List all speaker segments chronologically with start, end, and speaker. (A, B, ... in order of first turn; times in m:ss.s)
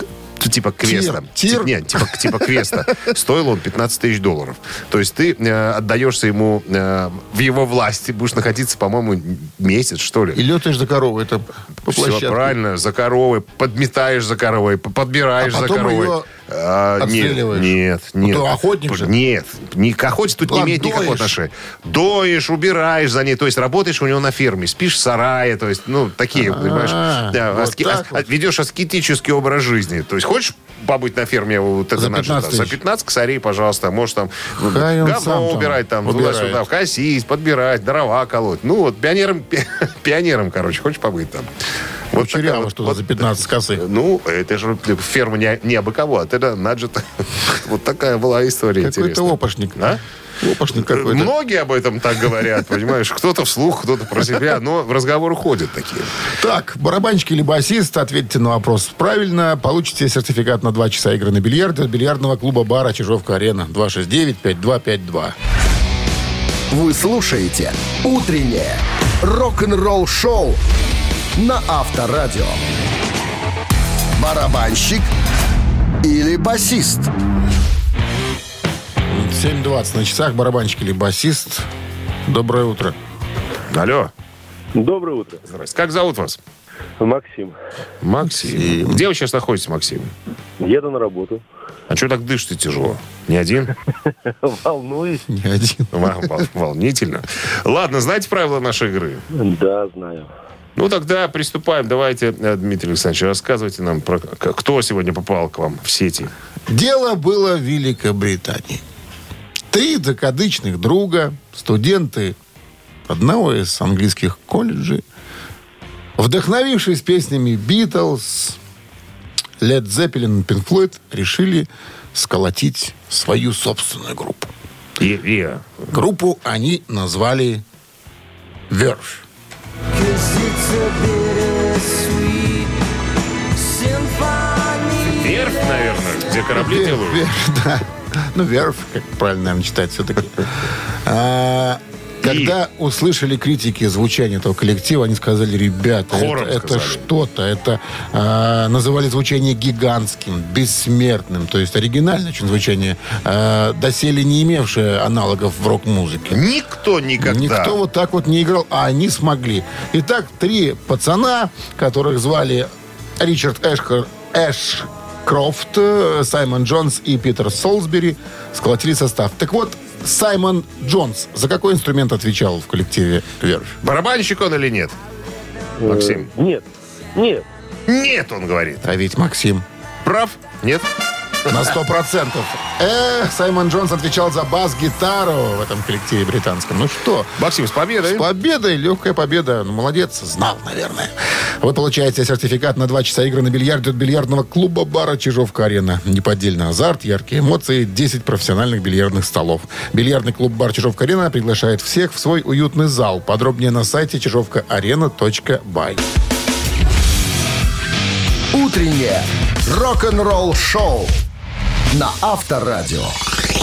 0:00.4-0:10.4 A
0:00.8-0:02.8 B
0:10.4-0:12.6 B
0:11.9-0:41.5 A
0:15.4-0:16.3 B
0:17.0-0:19.1 B
0:20.4-0:21.3 B
0:26.3-0:28.3 B
0:32.0-0:32.8 B
0:34.6-0:36.6 B
0:42.1-0:50.0 A
0:42.2-0:43.8 B
0:48.8-0:51.3 B
0:50.8-0:56.1 A
0:56.4-1:05.4 B
1:06.7-1:10.6 C
1:11.4-1:12.6 C
1:14.2-1:15.1 C
1:16.0-1:17.1 C
1:19.1-1:21.7 B
1:22.3-1:23.0 B
1:23.7-1:24.1 A
1:24.8-1:25.4 D
1:25.5-1:26.4 A
1:27.0-1:27.6 D
1:28.0-1:30.1 A
1:28.3-1:29.0 B
1:30.6-1:31.4 D
1:31.9-1:33.7 A
1:34.1-1:35.3 D
1:35.3-1:36.2 B
1:35.9-1:39.2 A
1:39.3-1:40.3 D
1:40.8-1:46.3 A
1:46.7-1:48.8 B
1:49.7-1:52.4 B
1:53.1-1:55.0 B
1:56.2-1:58.6 B
1:59.6-2:04.5 B
2:05.0-2:05.7 A
2:05.9-2:07.6 B
2:08.7-2:09.2 B
2:10.1-2:12.4 C
2:15.1-2:17.2 A
2:16.5-2:36.4 B
2:22.2-2:22.6 A
2:26.1-2:27.1 A
2:36.3-2:37.8 A
2:37.2-2:53.8 B
2:53.8-2:55.0 A
2:55.8-2:57.5 D
2:55.8-2:56.3 A
2:57.9-2:58.9 A
2:58.8-2:59.6 B
3:00.0-3:00.9 A
3:01.5-3:07.4 B
3:07.4-3:08.3 A
3:08.0-3:26.0 B
3:28.5-3:31.2 C
3:31.9-3:33.2 C